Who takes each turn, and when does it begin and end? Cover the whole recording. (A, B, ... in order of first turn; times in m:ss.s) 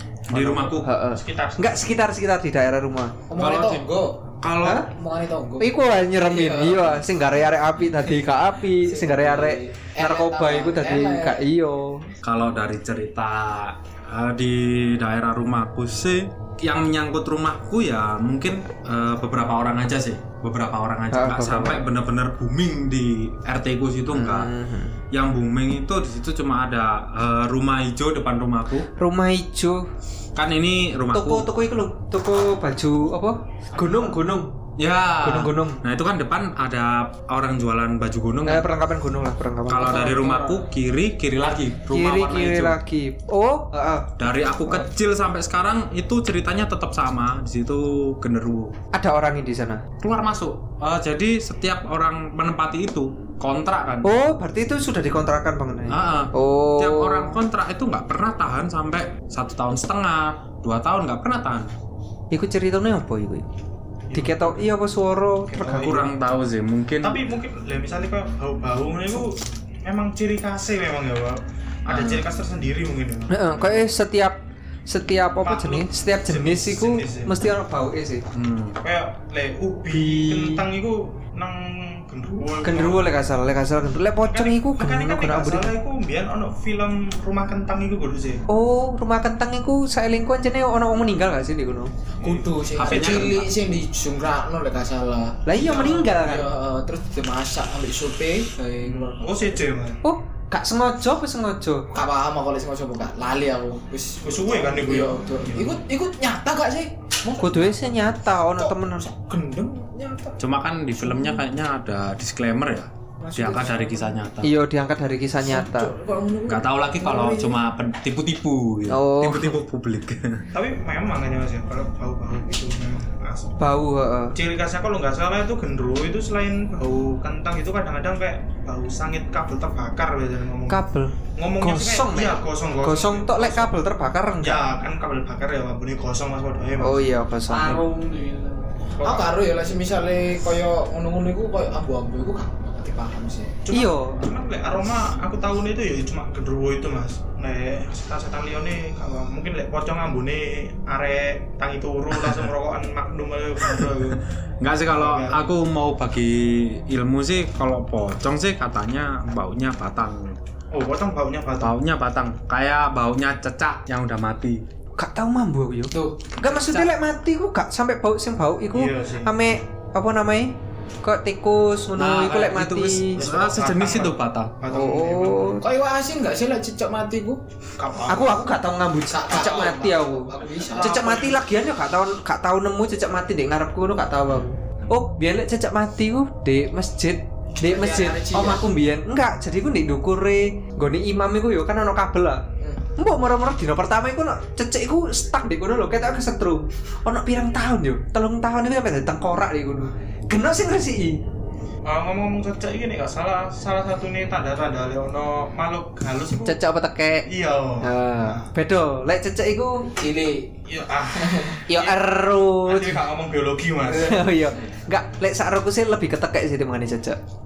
0:00.3-0:02.0 A
0:00.3-0:00.9 B
0:00.8-0:03.2 C
0:03.3-0:04.2 D
0:03.4-0:03.8 B
0:04.4-0:04.9 B
0:04.6-0:04.9 C
0:04.9-0:07.1 D
0:05.6-0:12.1 C
0:08.8-0:11.4 D
0:12.2-0:24.5 B
0:21.1-0:21.8 C
0:24.1-0:25.0 C
0:25.1-0:28.9 B
0:29.0-0:29.9 C
0:30.4-0:31.5 B
0:31.1-0:34.6 C
0:33.7-0:34.2 A
0:34.8-0:38.7 B
0:35.2-0:35.8 C
0:38.5-0:40.5 C
0:39.7-0:42.8 B
0:40.2-0:40.6 A
0:41.9-0:44.2 C
0:44.2-0:48.8 B
0:48.9-0:49.8 C
0:50.0-0:54.1 B
0:54.0-0:57.4 C
0:55.9-1:01.7 B
1:02.3-1:03.5 C
1:04.1-1:04.7 A
1:04.2-1:06.0 C
1:05.5-1:06.0 A
1:05.8-1:07.2 B
1:07.0-1:13.9 A
1:11.9-1:12.2 B
1:13.3-1:18.2 C
1:15.4-1:17.4 A
1:18.3-1:18.8 B
1:18.8-1:23.2 A
1:19.9-1:20.6 C
1:22.6-1:25.7 C
1:24.2-1:28.4 A
1:28.5-1:31.9 C
1:32.2-1:33.3 A
1:32.2-1:39.6 D
1:32.7-1:33.5 B
1:35.5-1:36.5 C
1:38.8-1:40.0 A
1:40.0-1:41.9 C
1:41.9-1:47.8 D
1:44.2-1:45.8 A
1:47.4-1:49.1 C
1:48.6-1:50.4 A
1:50.4-1:54.5 B
1:51.0-1:51.4 D
1:53.2-1:54.2 D
1:54.4-1:55.9 C
1:55.4-1:57.6 D
1:56.5-2:00.5 B
1:58.9-1:59.6 C
2:00.5-2:03.6 A
2:03.6-2:04.4 C
2:04.4-2:10.8 A
2:10.7-2:14.6 C
2:11.4-2:13.8 A
2:14.4-2:17.1 A
2:16.8-2:17.8 C
2:17.5-2:23.6 D
2:17.6-2:18.0 A
2:19.0-2:19.3 A
2:23.6-2:34.2 A
2:23.7-2:24.2 C
2:32.1-2:32.5 B
2:33.6-2:40.4 B
2:34.9-2:35.4 A
2:40.7-2:41.8 A
2:41.6-2:44.6 B
2:45.0-2:53.2 C
2:45.9-2:46.9 D
2:48.7-2:49.3 A
2:52.0-2:54.6 B
2:53.2-2:55.6 A
2:54.7-2:55.6 C
2:55.6-2:57.4 D
2:57.8-2:58.5 A
2:58.1-3:12.4 C
2:59.1-3:01.1 D
3:00.6-3:01.4 A
3:07.6-3:08.7 D
3:12.9-3:21.2 C
3:21.8-3:26.6 A
3:26.4-3:27.3 C
3:27.3-3:28.5 A
3:27.8-3:29.9 C
3:30.0-3:30.5 D
3:30.7-3:32.0 A
3:31.2-3:31.6 D
3:31.7-3:33.0 C
3:32.6-3:34.2 A
3:33.9-3:34.2 D
3:34.0-3:37.2 C